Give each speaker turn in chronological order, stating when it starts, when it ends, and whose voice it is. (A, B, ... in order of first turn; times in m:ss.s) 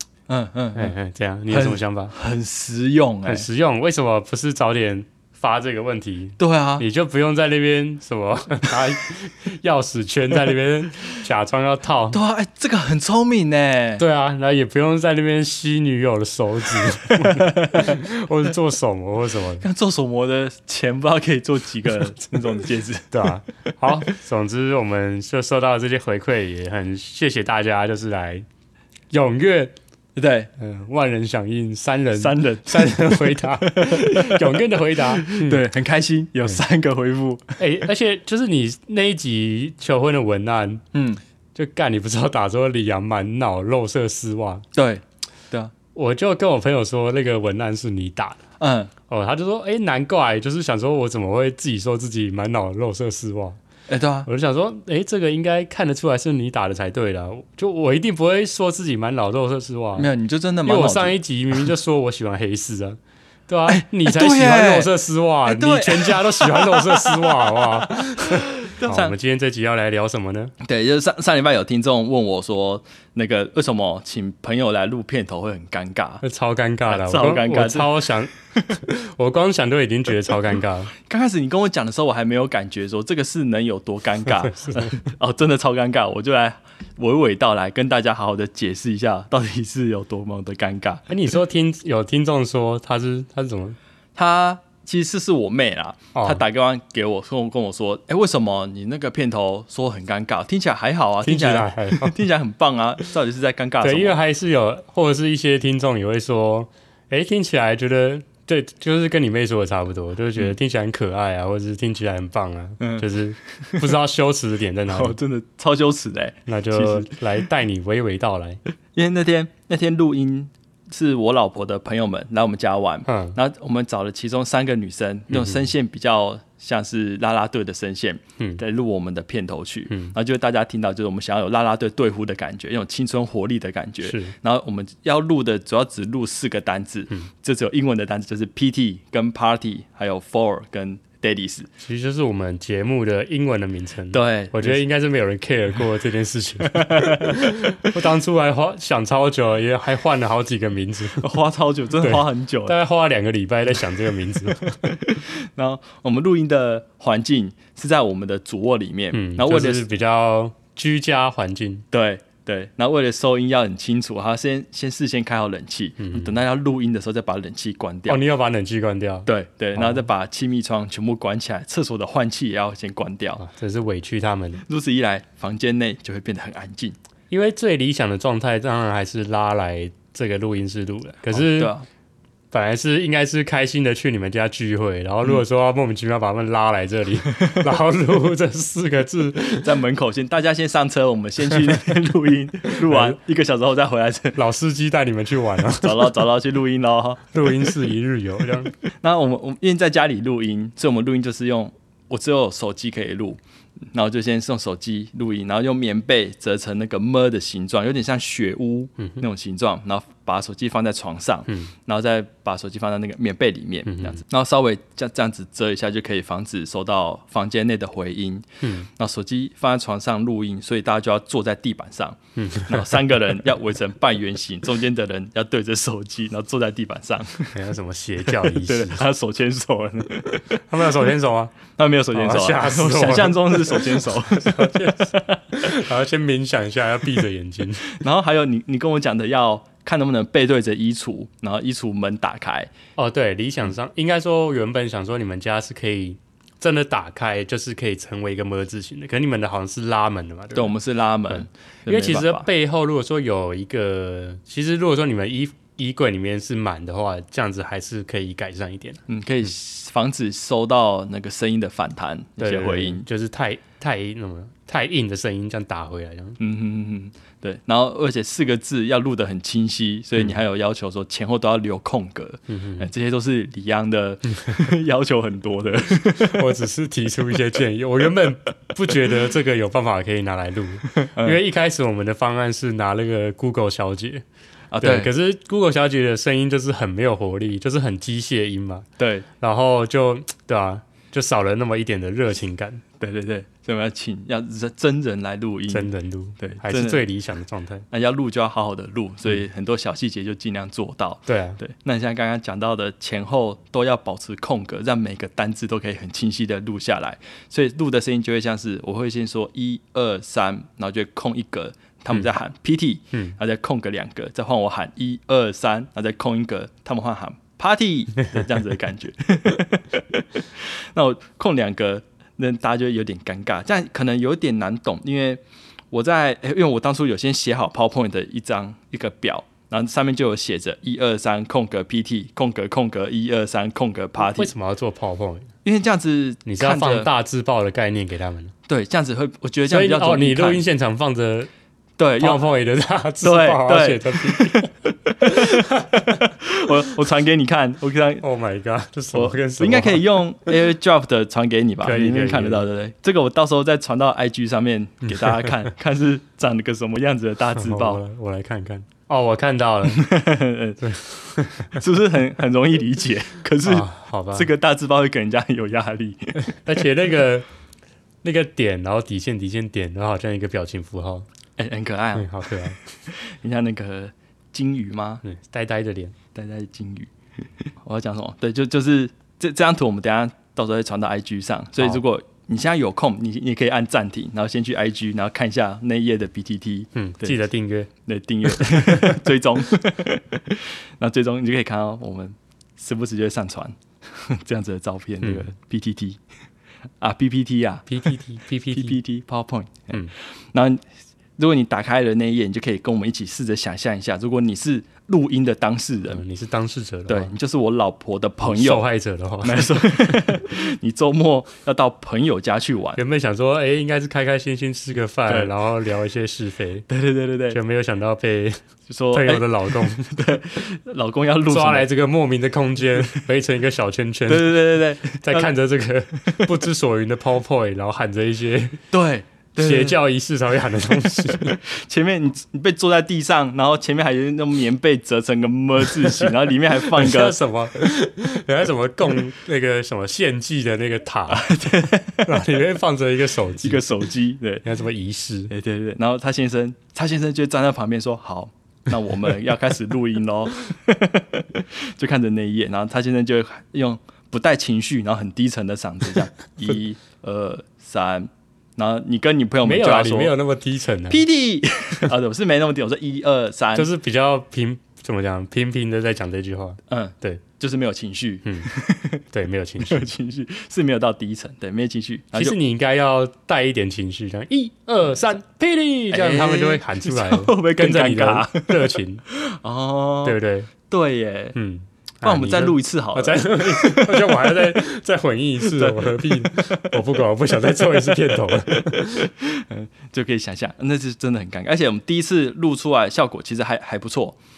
0:00.3-0:00.9 A
0:00.7-0:02.1 B
0:01.5-0:03.5 A
0:03.2-0:12.2 B
0:06.4-0:06.8 A
0:12.1-0:14.0 A
0:14.0-0:19.6 B
0:17.0-0:18.0 A
0:19.6-0:23.3 A
0:23.1-0:28.4 B
0:29.1-0:29.7 B
0:30.2-0:30.5 A
0:30.6-0:35.6 B
0:32.2-0:37.6 A
0:37.6-0:40.8 B
0:40.9-0:41.2 A
0:41.5-0:44.6 B
0:44.7-0:45.7 A
0:45.9-0:48.4 B
0:48.6-0:48.9 A
0:49.1-0:53.6 B
0:53.9-0:54.3 A
0:54.2-1:00.1 B
1:00.0-1:01.7 A
1:00.6-1:10.5 B
1:03.6-1:07.5 A
1:08.6-1:09.1 A
1:10.6-1:16.2 A
1:16.2-1:20.9 B
1:16.8-1:18.1 A
1:21.0-1:31.2 A
1:24.4-1:25.0 B
1:31.1-1:33.8 B
1:34.1-1:44.2 A
1:36.1-1:36.4 B
1:41.2-1:42.2 B
1:43.8-1:55.2 B
1:52.8-1:54.0 A
1:54.9-1:57.2 A
1:56.5-1:58.6 B
1:58.9-2:21.7 A
2:03.0-2:03.4 B
2:05.3-2:05.7 B
2:09.9-2:10.2 B
2:14.0-2:14.3 B
2:21.8-2:31.3 B
2:24.1-2:24.8 A
2:26.7-2:27.3 A
2:31.2-2:32.8 A
2:32.0-2:34.8 B
2:34.9-2:39.9 A
2:39.1-2:41.8 B
2:41.9-2:48.2 A
2:46.0-2:46.4 B
2:48.1-2:50.1 B
2:49.2-2:53.4 A
2:53.4-2:54.6 B
2:54.7-2:57.0 A
2:57.3-3:01.7 B
3:01.3-3:01.8 A
3:02.5-3:09.7 B
3:07.3-3:07.7 A
3:09.5-3:14.4 A
3:12.8-3:13.2 B
3:14.3-3:16.2 B
3:15.8-3:17.4 A
3:17.3-3:18.7 B
3:19.0-3:23.4 A
3:23.9-3:47.6 A
3:29.0-3:29.2 B
3:31.5-3:31.7 B
3:33.9-3:34.2 B
3:42.4-3:43.0 B
3:47.5-3:49.0 B
3:48.4-3:50.8 A
3:50.3-3:51.6 B
3:51.8-3:55.6 A
3:52.1-3:58.0 B
3:57.8-4:02.7 A
4:03.0-4:10.8 B
4:10.5-4:12.5 A
4:11.3-4:19.0 B
4:19.1-4:23.0 A
4:22.4-4:26.4 B
4:26.4-4:36.6 A
4:32.5-4:32.9 B
4:36.2-4:44.2 B
4:41.0-4:41.4 A
4:44.7-4:45.1 A
4:44.8-4:48.9 B
4:49.0-4:49.3 A
4:49.4-4:52.8 B
4:53.0-4:57.0 A
4:55.7-4:57.8 B
4:57.9-5:34.5 A
5:01.3-5:01.6 B
5:34.2-5:35.5 B
5:35.6-5:37.1 A
5:36.4-5:38.5 B
5:38.7-5:40.6 A
5:39.6-5:41.5 B
5:42.0-5:42.4 A
5:42.2-5:44.7 B
5:43.2-5:48.2 A
5:45.2-5:46.0 B
5:48.2-5:50.6 B
5:49.1-5:58.0 A
5:51.8-5:52.7 B
5:57.6-6:00.0 B
5:59.9-6:01.0 A
6:00.8-6:01.8 B
6:01.7-6:06.5 A
6:03.6-6:04.5 B
6:06.5-6:07.5 B
6:08.2-6:11.2 B
6:11.6-6:15.2 A
6:12.2-6:12.8 B
6:15.2-6:16.1 B
6:16.3-6:27.4 A
6:26.9-6:27.9 B
6:28.0-6:36.2 A
6:28.4-6:29.2 B
6:37.0-6:38.1 A
6:37.9-6:39.0 B
6:38.7-6:40.8 A
6:41.4-6:46.2 A
6:46.1-6:47.3 B
6:47.1-6:48.9 A
6:48.4-6:50.2 B
6:49.4-6:53.0 A
6:52.9-6:56.9 B
6:55.3-6:55.5 A
6:56.9-6:57.6 A
6:57.5-6:58.6 B
6:58.9-7:01.9 A
6:59.1-7:00.2 B
7:01.5-7:08.8 B
7:04.3-7:05.5 A
7:08.9-7:10.0 A
7:09.6-7:11.6 B
7:11.1-7:17.4 A
7:16.0-7:21.5 B
7:21.3-7:22.5 A
7:22.2-7:23.9 B
7:23.6-7:24.6 A
7:24.6-7:25.5 B
7:25.5-7:40.3 A
7:39.6-7:41.2 B
7:41.1-7:43.9 A
7:43.7-7:47.4 B
7:46.9-7:49.2 A
7:48.4-7:48.7 B
7:49.3-7:50.1 B
7:49.8-7:52.6 A
7:52.3-7:59.2 B
7:56.1-8:01.6 A
8:00.2-8:00.7 B
8:01.5-8:09.3 B
8:02.2-8:04.7 A
8:05.6-8:07.0 A
8:07.8-8:14.4 A